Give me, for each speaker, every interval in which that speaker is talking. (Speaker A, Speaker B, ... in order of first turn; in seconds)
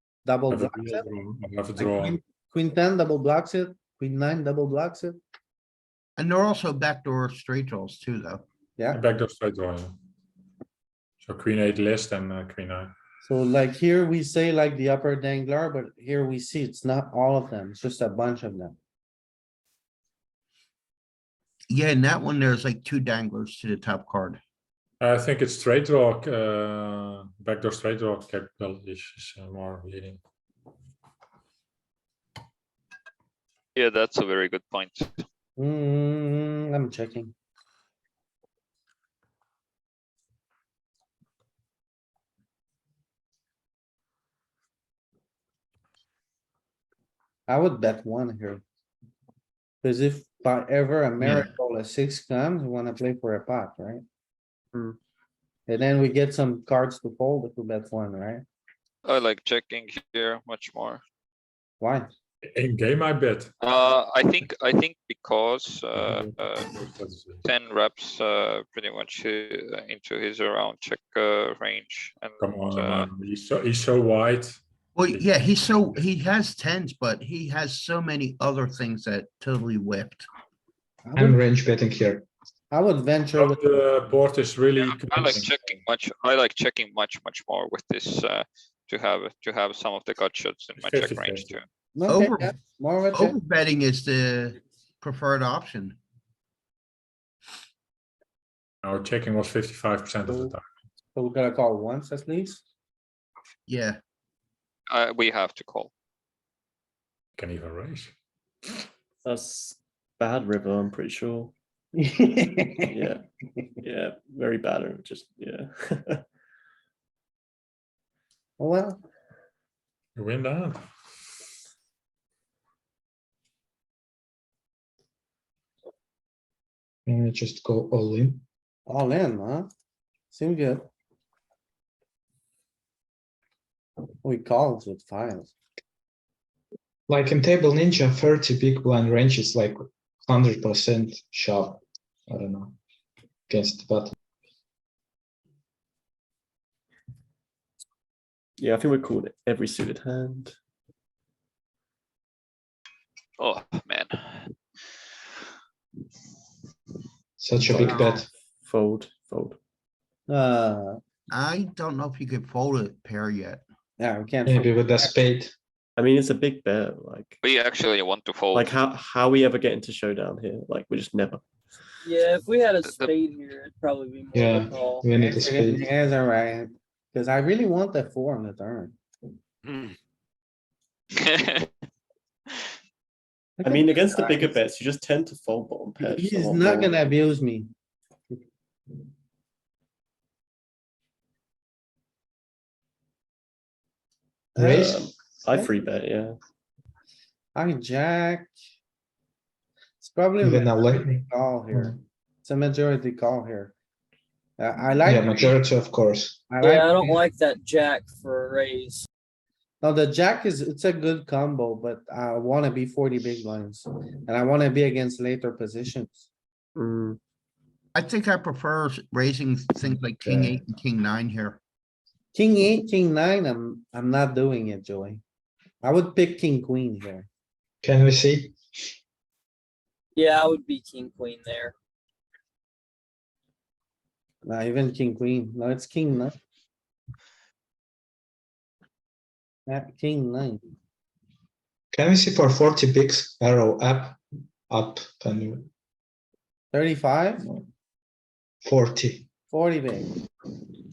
Speaker A: 0.3-1.1, 1.8-5.2, 13.2-18.8, 35.6-37.3, 47.5-48.6, 49.8-54.0, 55.7-58.5, 61.8-62.1, 81.1-81.4, 82.7-83.8, 92.0-93.4, 100.3-100.5, 101.2-102.6, 112.0-112.9, 118.6-119.0, 128.9-129.7, 130.3-130.8, 134.2-135.5, 160.3-161.0, 164.0-165.2, 175.2-179.0, 183.6-184.6, 186.0-187.7, 194.6-194.9, 197.6-198.5, 200.0-203.8, 204.6-205.6, 206.5-207.2, 209.8-216.3, 222.3-225.2, 225.8-227.3, 234.4-236.4, 239.7-240.7, 246.7-247.5, 249.5-250.1
Speaker B: 0.5-2.2, 8.9-10.0, 11.2-12.9, 25.0-30.2, 62.5-63.5, 66.0-67.4, 72.4-75.3, 83.4-85.6, 90.8-91.6, 98.8-100.6, 107.4-108.1, 120.2-120.8
Speaker C: 6.2-8.4, 21.7-24.4, 51.2-51.5, 75.0-80.3, 92.1-92.5, 93.1-96.0, 103.7-104.0, 157.8-158.2, 161.3-163.6, 217.9-221.6
Speaker D: 33.8-35.1, 59.0-61.0, 63.6-66.7, 67.4-73.1, 84.8-91.7, 104.9-105.9, 153.4-154.5, 167.4-168.7, 172.8-173.1, 181.2-181.7
Speaker E: 81.2-82.3, 127.1-128.4, 137.1-142.8, 143.5-144.1, 157.4-158.3, 164.5-165.5, 174.3-175.9, 194.6-195.0, 200.4-202.0, 205.1-206.4, 220.2-220.6, 227.8-228.6, 241.9-245.7, 248.6-249.3
Speaker F: 109.2-111.5, 112.9-113.2, 113.8-116.2, 148.6-150.6, 157.6-159.6, 166.0-167.4, 168.5-171.4, 183.6-187.1, 194.6-196.3, 216.8-217.2
Speaker G: 172.0-175.1, 206.6-209.1, 230.2-231.7